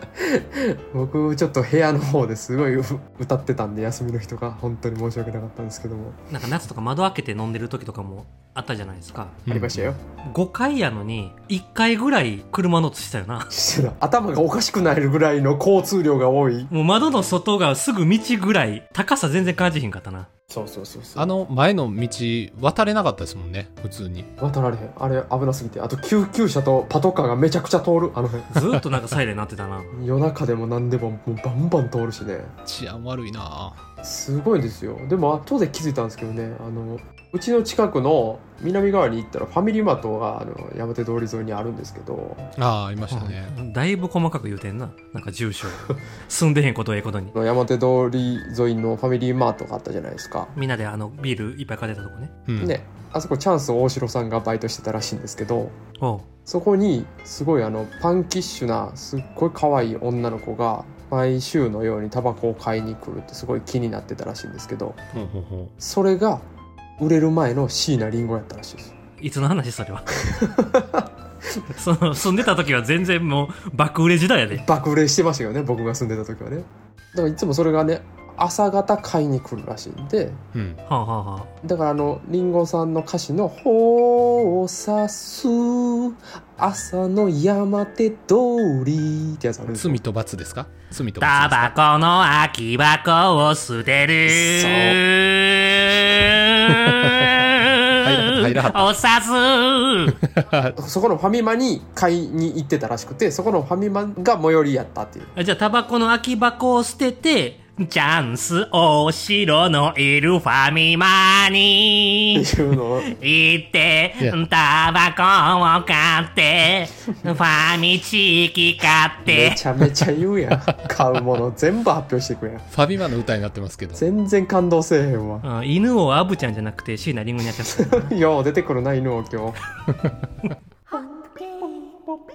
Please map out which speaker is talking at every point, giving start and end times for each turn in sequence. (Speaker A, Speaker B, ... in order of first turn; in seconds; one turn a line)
Speaker A: 0.2-6.2
Speaker B: 6.3-9.4
Speaker C: 9.5-9.9
Speaker A: 9.5-10.0
Speaker B: 10.2-13.5
Speaker A: 13.5-16.7
Speaker B: 16.7-20.3
Speaker A: 20.5-21.3
Speaker C: 21.2-24.3
Speaker A: 24.4-28.5
Speaker B: 28.5-30.0
Speaker A: 29.9-32.5
Speaker C: 32.7-33.8
Speaker A: 34.0-42.5
Speaker C: 42.6-43.5
Speaker B: 43.1-47.4
Speaker A: 47.4-50.5
Speaker B: 50.5-52.3
Speaker C: 52.5-52.8
Speaker A: 52.6-55.8
Speaker B: 56.0-56.3
Speaker A: 56.5-65.0
Speaker C: 65.1-65.7
Speaker A: 65.8-66.5
Speaker A: 67.0-69.0
Speaker B: 69.2-70.4
Speaker A: 70.5-71.1
Speaker B: 71.7-74.6
Speaker A: 74.5-80.4
Speaker C: 80.5-80.8
Speaker B: 80.9-81.5
Speaker A: 81.6-90.0
Speaker C: 89.7-91.8
Speaker B: 91.2-100.2
Speaker A: 94.3-95.0
Speaker C: 96.7-97.5
Speaker C: 98.0-98.9
Speaker C: 100.2-100.8
Speaker A: 100.8-105.3
Speaker B: 105.3-112.4
Speaker A: 112.3-113.1
Speaker B: 113.0-119.6
Speaker A: 119.3-122.7
Speaker C: 122.7-124.0
Speaker A: 124.0-125.5
Speaker B: 125.4-128.1
Speaker A: 127.7-129.6
Speaker B: 130.9-131.8